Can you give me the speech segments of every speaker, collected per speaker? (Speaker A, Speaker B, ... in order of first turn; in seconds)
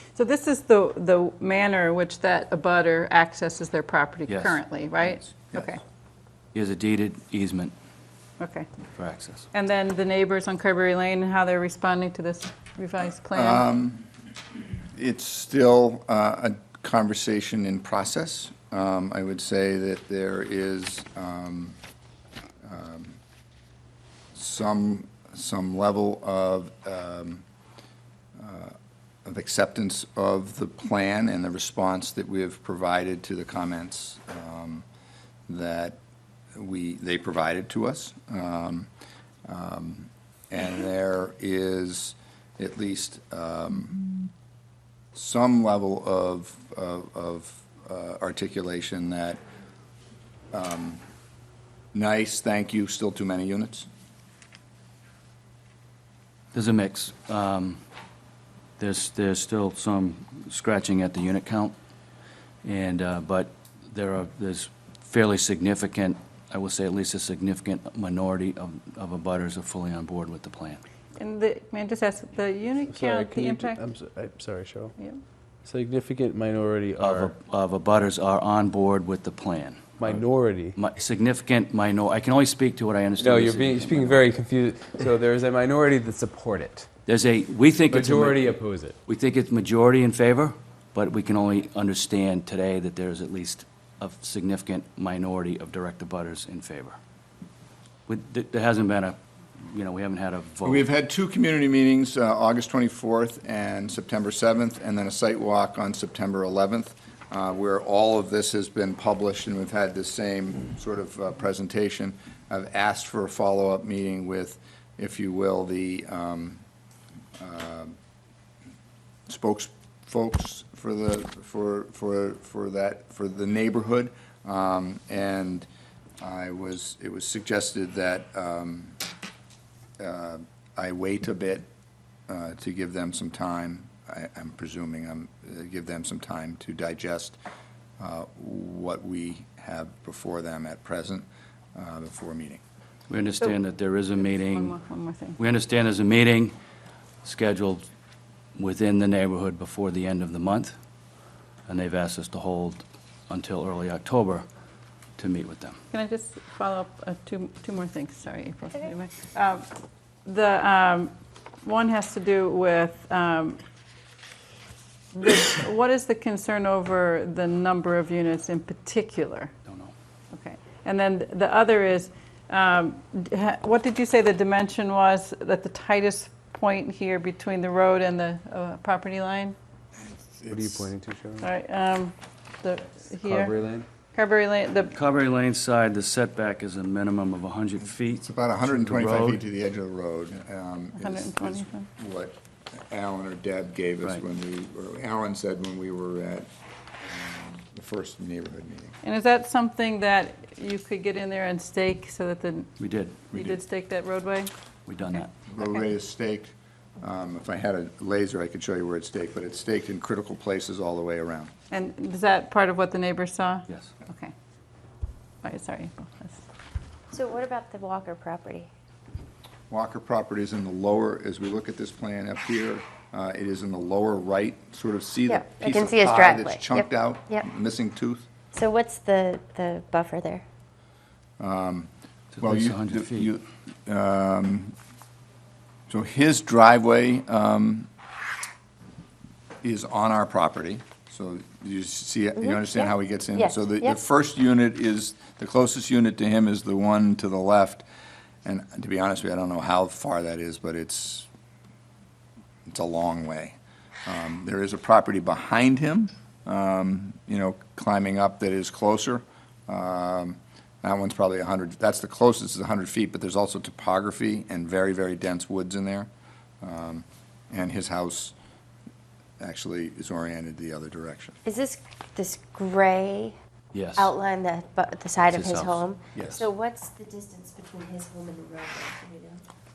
Speaker A: 0.1-5.8, 8.4-8.7, 9.5-13.6, 71.2-73.8, 144.2-145.4, 155.9-159.7, 160.2-163.6, 165.1-169.5, 170.3-179.6, 181.4-183.5, 184.1-184.9, 190.9-191.9, 199.0-202.7, 203.3-204.5, 205.1-205.7, 211.7-214.3, 215.4-216.4
Speaker B: 4.3-4.6, 6.5-7.7, 8.9-9.4, 56.5-57.8, 58.8-61.7, 62.6-70.8, 77.0-80.2, 80.7-84.2, 87.0-97.0, 98.1-100.8, 143.1-144.8, 145.4-146.6, 147.2-147.8, 148.6-150.7, 151.7-154.4, 155.2-155.8, 169.7-169.9, 184.9-189.4, 202.8-203.2, 204.9-205.3, 232.3-233.3, 273.7-274.1, 275.2-275.8
Speaker C: 13.3-14.1, 14.9-21.8, 22.6-23.2, 24.3-27.4, 28.4-34.8, 35.5-36.0, 36.5-38.9, 39.5-44.0, 45.1-49.4, 50.5-51.0, 51.9-53.9, 100.6-116.6, 117.4-117.9, 119.3-125.7, 126.2-129.0, 130.0-131.7, 132.3-137.4, 138.0-142.6, 180.0-180.9, 188.1-196.5, 197.0-198.9, 203.3-203.6, 205.5-211.5, 219.7-228.2, 231.4-231.9, 232.4-234.7, 235.9-237.9, 239.6-247.8, 248.4-251.3, 252.7-266.1, 266.6-268.3, 269.4-271.4, 276.1-276.4
Speaker D: 72.9-74.9, 75.6-77.3, 80.0-80.7, 83.2-86.9, 87.9-89.0, 180.5-181.5, 183.2-183.9
Speaker E: 217.1-218.7, 225.3-227.4, 228.5-230.4, 242.4-244.0, 271.4-273.3, 273.9-279.4